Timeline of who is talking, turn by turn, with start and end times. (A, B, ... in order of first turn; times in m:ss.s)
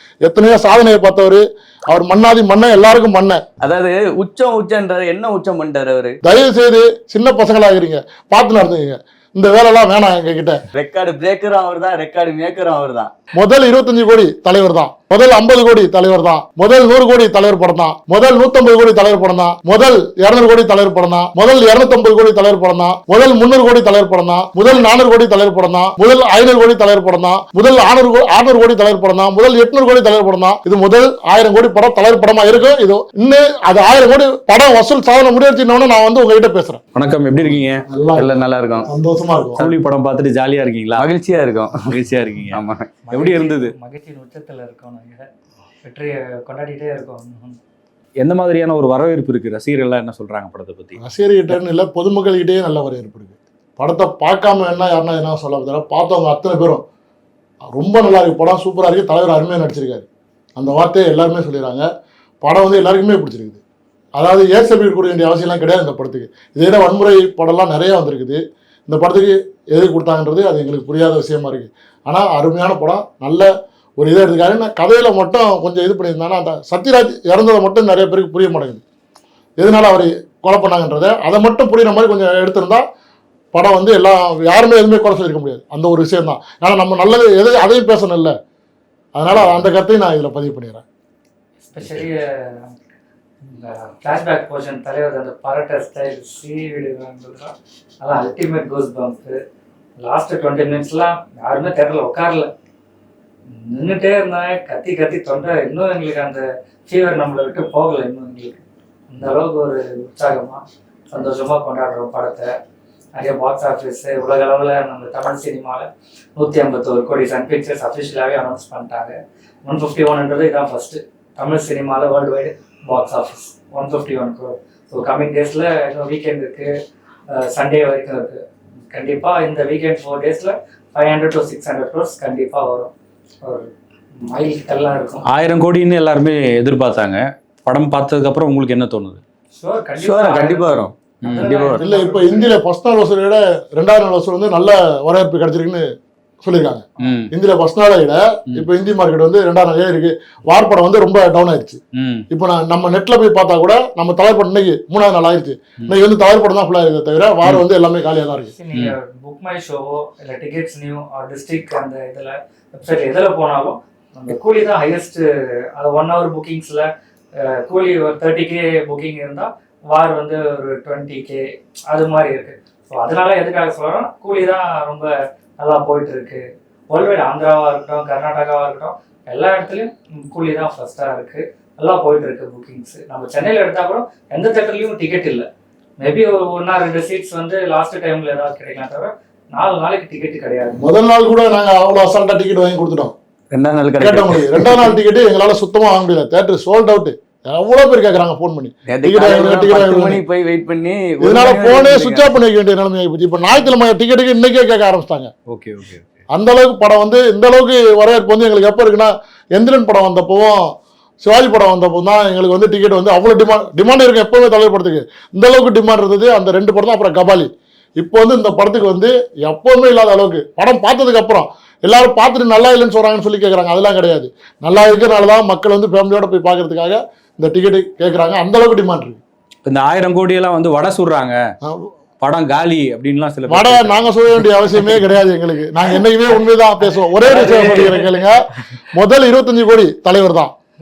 0:00.2-0:03.4 A
0:03.6-0:06.2 B
0:06.2-0:10.6 A
0:10.7-0:13.1 B
0:13.4-0:36.8 A
0:36.9-0:37.8 C
0:37.9-0:38.3 A
0:38.2-0:38.9 B
0:38.8-0:39.7 A
0:39.6-0:41.1 C
0:41.0-0:41.9 B
0:41.9-0:42.6 C
0:42.5-0:42.9 B
0:43.0-0:45.3 D
0:43.1-0:43.7 C
0:45.8-0:47.6 D
0:48.2-0:51.0 C
0:51.0-0:56.8 A
0:57.7-1:01.8 A
1:02.4-1:03.6 A
1:04.2-1:18.8 A
1:19.6-1:22.8 A
1:23.5-1:28.3 A
1:29.2-1:30.8 A
1:31.7-1:32.7 D
1:33.4-1:39.4 D
1:40.0-1:42.5 D
1:43.5-1:52.5 D
1:53.1-2:06.7 D
2:07.3-2:13.7 D
2:14.2-2:15.2 D
2:15.3-2:19.2 C
2:19.5-2:22.6 D
2:20.0-2:21.8 B
2:21.2-2:21.5 C
2:21.8-2:25.9 A
2:26.4-2:38.5 A
2:27.0-2:27.3 C
2:31.9-2:32.2 C
2:38.6-3:05.4 D
3:06.0-3:10.8 D
3:10.8-3:13.1 A
3:13.5-3:15.0 B
3:14.0-3:20.2 A
3:18.9-3:22.3 B
3:21.2-3:25.3 A
3:25.5-3:26.2 C
3:26.3-3:49.2 A
3:49.6-3:51.4 C
3:51.6-3:51.9 A
3:52.2-3:54.1 C
3:53.5-4:00.5 A
3:54.7-3:55.0 C
3:57.2-3:58.1 B